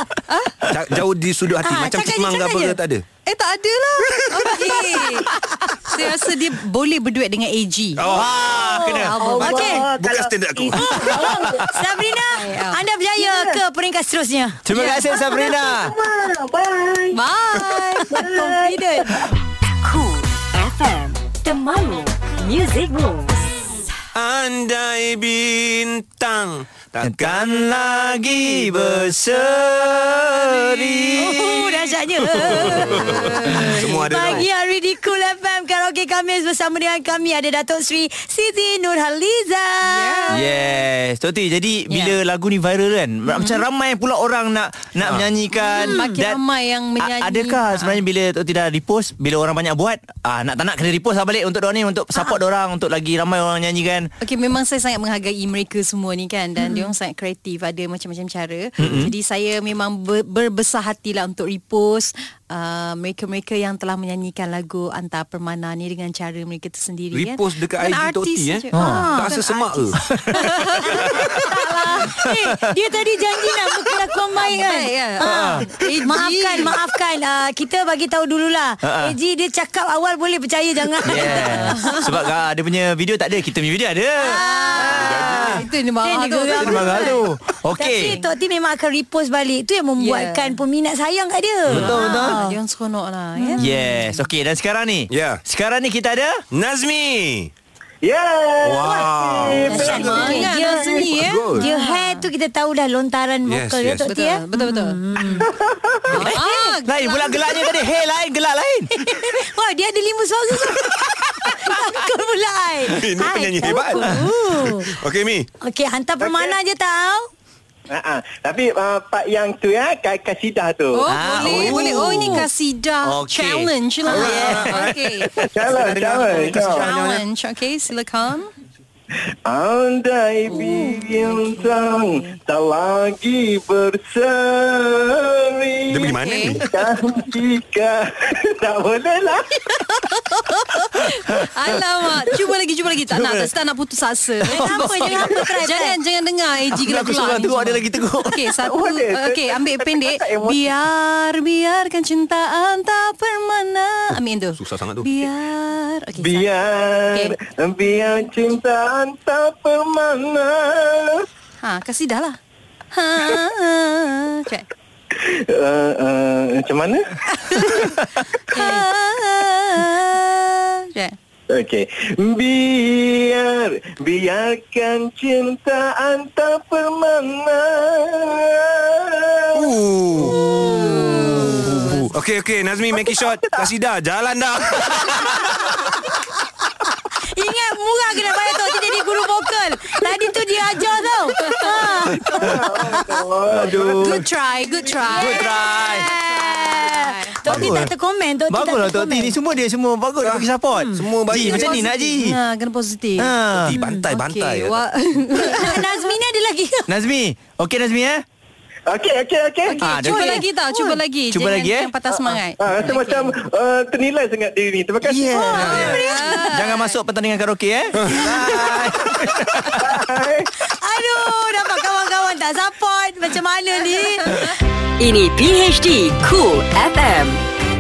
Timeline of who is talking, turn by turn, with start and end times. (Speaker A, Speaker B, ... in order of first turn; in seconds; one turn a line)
Speaker A: 0.3-0.7
Speaker B: 0.7-3.0
Speaker C: 1.6-2.8
Speaker A: 3.3-9.8
Speaker B: 4.1-4.6
Speaker B: 8.0-8.3
Speaker D: 8.1-9.2
Speaker C: 8.6-8.8
Speaker E: 9.2-11.7
Speaker C: 9.4-9.8
Speaker B: 9.4-11.2
Speaker C: 10.8-14.6
Speaker A: 12.3-12.8
Speaker E: 13.2-13.6
Speaker D: 14.7-15.9
Speaker A: 14.7-15.1
Speaker E: 14.9-17.2
Speaker A: 17.1-18.3
Speaker E: 18.1-19.3
Speaker C: 18.1-19.1
Speaker F: 19.8-23.4
Speaker B: 24.1-27.8
Speaker D: 27.0-31.6
Speaker B: 28.6-28.9
Speaker C: 31.2-40.4
Speaker A: 32.4-34.5
Speaker B: 32.7-34.5
Speaker A: 39.9-40.6
Speaker D: 40.3-46.4
Speaker A: 41.9-42.2
Speaker A: 45.5-48.0
Speaker C: 45.8-46.1
Speaker D: 47.0-54.1
Speaker A: 54.2-72.3
Speaker C: 56.6-56.9
Speaker D: 58.8-59.1
Speaker B: 58.8-59.1
Speaker B: 67.1-70.0
Speaker D: 68.7-69.1
Speaker C: 68.8-69.3
Speaker C: 71.1-71.5
Speaker C: 72.0-81.9
Speaker D: 72.3-72.5
Speaker A: 74.3-76.8
Speaker D: 75.2-75.7
Speaker D: 78.8-79.2
Speaker A: 81.0-82.1
Speaker D: 81.0-85.6
Speaker C: 84.2-85.3
Speaker A: 84.3-87.3
Speaker B: 84.9-85.6
Speaker C: 86.0-87.2
Speaker D: 86.5-88.2
Speaker C: 87.8-92.6
Speaker A: 88.0-88.3
Speaker A: 90.0-90.6
Speaker D: 91.7-92.4
Speaker A: 91.8-94.2
Speaker C: 93.4-93.7
Speaker D: 93.6-96.4
Speaker B: 95.1-95.4
Speaker B: 96.5-97.5
Speaker G: 98.0-100.3
Speaker B: 98.6-100.5
Speaker A: 99.7-102.3
Speaker C: 99.7-105.5
Speaker B: 101.0-101.7
Speaker B: 103.5-104.1
Speaker A: 104.1-105.4
Speaker G: 105.5-106.1
Speaker A: 106.1-107.6
Speaker C: 106.2-106.8
Speaker D: 106.8-108.9
Speaker C: 109.0-114.9
Speaker B: 112.9-114.1
Speaker D: 114.0-114.3
Speaker B: 114.6-115.5
Speaker C: 115.6-117.3
Speaker G: 116.2-116.5
Speaker G: 117.9-121.1
Speaker A: 120.9-128.5
Speaker D: 121.1-122.5
Speaker B: 121.3-122.4
Speaker D: 123.0-124.9
Speaker B: 124.1-127.2
Speaker G: 125.5-126.9
Speaker G: 129.5-139.5
Speaker A: 130.5-132.4
Speaker B: 135.9-136.6
Speaker A: 136.0-136.7
Speaker A: 139.9-156.5
Speaker D: 143.1-143.5
Speaker D: 144.5-145.3
Speaker C: 144.5-146.0
Speaker D: 146.7-148.5
Speaker G: 148.6-150.7
Speaker B: 154.6-155.1
Speaker G: 156.2-161.2
Speaker A: 161.6-162.4
Speaker A: 162.9-164.7
Speaker G: 165.1-167.0
Speaker A: 167.4-171.2
Speaker C: 168.5-168.8
Speaker G: 171.5-179.8
Speaker B: 179.5-180.4
Speaker A: 180.2-182.0
Speaker C: 180.4-181.6
Speaker B: 181.4-185.6
Speaker C: 187.3-192.5
Speaker A: 191.4-192.0
Speaker G: 192.3-194.1
Speaker B: 193.5-194.3
Speaker A: 194.0-197.4
Speaker C: 195.1-199.4
Speaker D: 195.1-196.1
Speaker D: 197.5-197.9
Speaker D: 198.5-202.4
Speaker B: 200.2-201.8
Speaker C: 200.8-201.0
Speaker A: 201.3-203.3
Speaker D: 203.2-203.7
Speaker B: 203.6-204.8
Speaker C: 203.8-204.1
Speaker A: 204.1-206.1
Speaker C: 205.4-206.9
Speaker D: 206.9-208.2
Speaker G: 208.9-209.9
Speaker A: 209.7-213.3
Speaker D: 209.8-211.9
Speaker C: 210.1-210.4
Speaker G: 212.6-215.4
Speaker D: 215.0-220.0
Speaker C: 215.3-216.6
Speaker A: 215.5-216.9
Speaker B: 215.6-215.9
Speaker B: 218.0-218.3
Speaker G: 219.8-220.5
Speaker C: 220.7-224.4
Speaker F: 225.0-227.4